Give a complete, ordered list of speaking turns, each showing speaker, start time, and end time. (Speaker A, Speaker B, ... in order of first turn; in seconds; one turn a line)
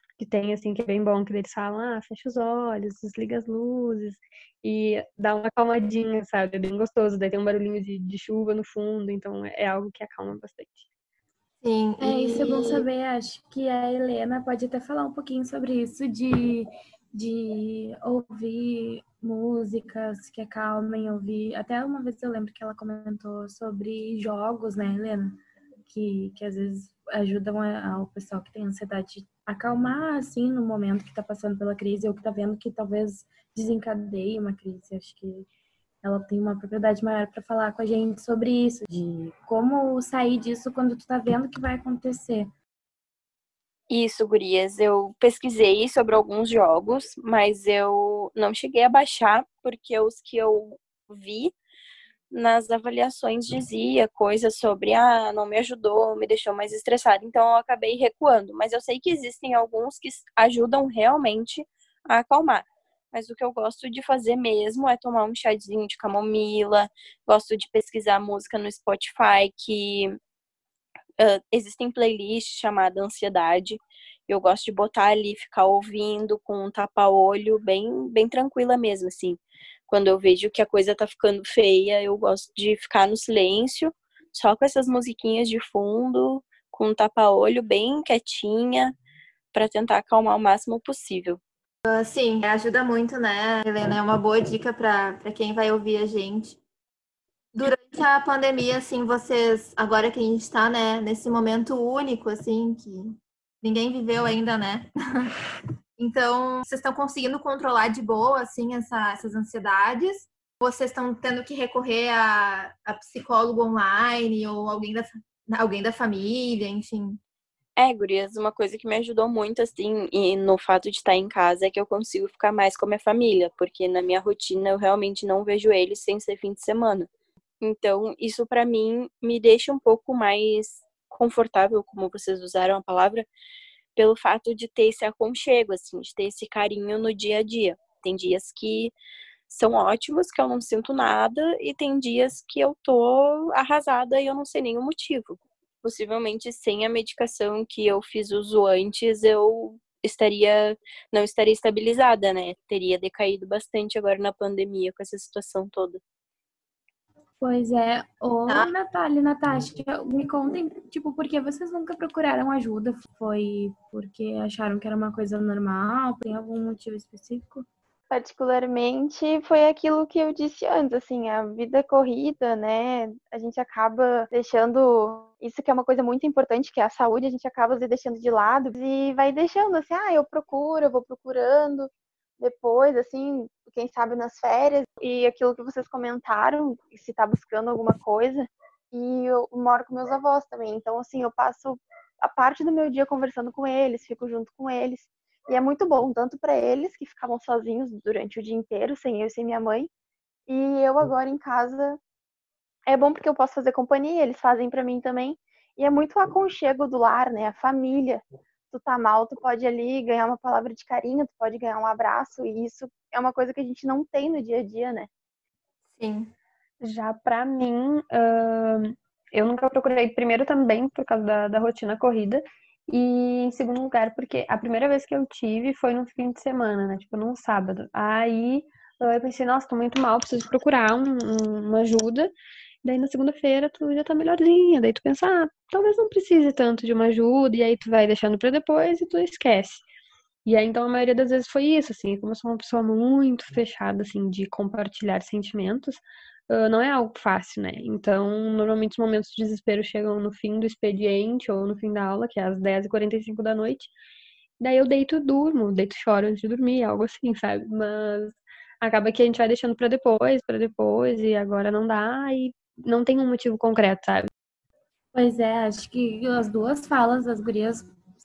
Speaker A: 0.2-10.9
Speaker B: 11.6-12.9
Speaker C: 12.0-35.5
Speaker C: 36.0-42.5
Speaker D: 43.9-51.5
Speaker D: 52.3-70.2
Speaker D: 71.2-89.0
Speaker D: 89.5-91.4
Speaker B: 91.9-96.6
Speaker B: 97.5-105.3
Speaker B: 106.0-117.2
Speaker D: 117.8-127.1
Speaker D: 127.6-133.3
Speaker D: 134.0-138.9
Speaker D: 139.5-156.0
Speaker C: 157.4-167.7
Speaker E: 168.1-199.9
Speaker E: 200.5-202.0
Speaker E: 202.9-215.1
Speaker B: 215.9-216.3
Speaker A: 216.8-239.8
Speaker A: 240.4-253.9
Speaker A: 254.6-264.3
Speaker C: 265.1-267.9